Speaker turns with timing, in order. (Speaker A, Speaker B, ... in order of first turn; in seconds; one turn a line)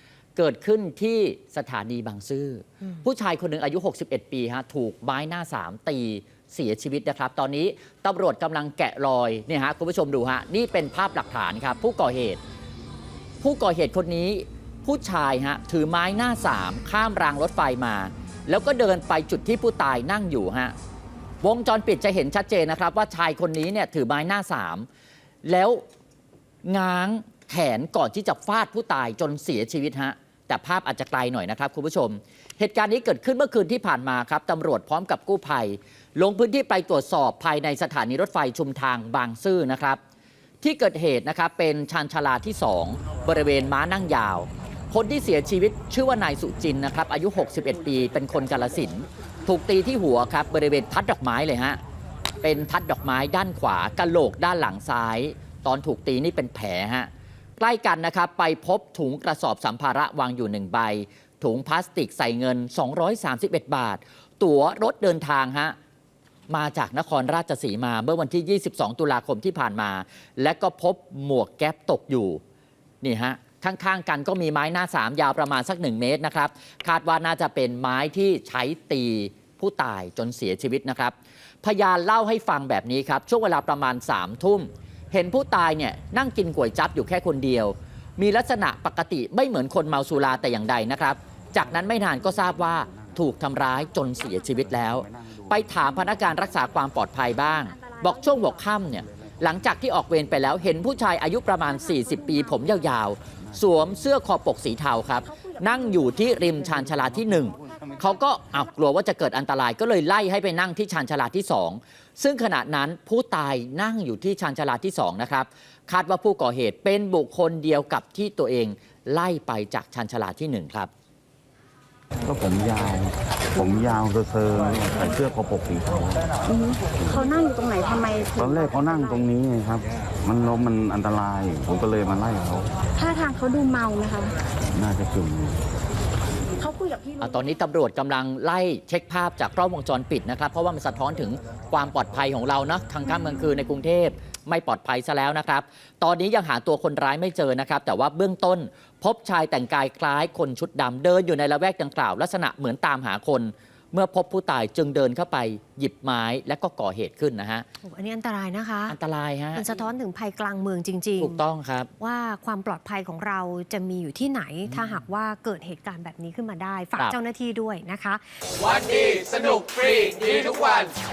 Speaker A: 0.3-12.4
Speaker A: 13.4-20.7
Speaker A: 21.4-24.9
Speaker A: 25.4-25.8
Speaker A: 26.6-40.0
Speaker A: 40.6-51.8
Speaker A: 52.4-65.7
Speaker A: 66.5-72.4
Speaker A: 73.0-120.9
Speaker B: 105.6-106.3
Speaker B: 107.6-108.0
Speaker C: 122.2-126.4
Speaker B: 126.5-129.2
Speaker C: 128.4-132.8
Speaker B: 133.0-134.3
Speaker C: 134.7-135.6
Speaker B: 136.5-137.3
Speaker A: 137.2-157.7
Speaker D: 157.8-158.9
Speaker A: 158.9-159.8
Speaker D: 159.6-161.4
Speaker A: 161.2-161.9
Speaker D: 162.0-170.4
Speaker E: 168.8-170.9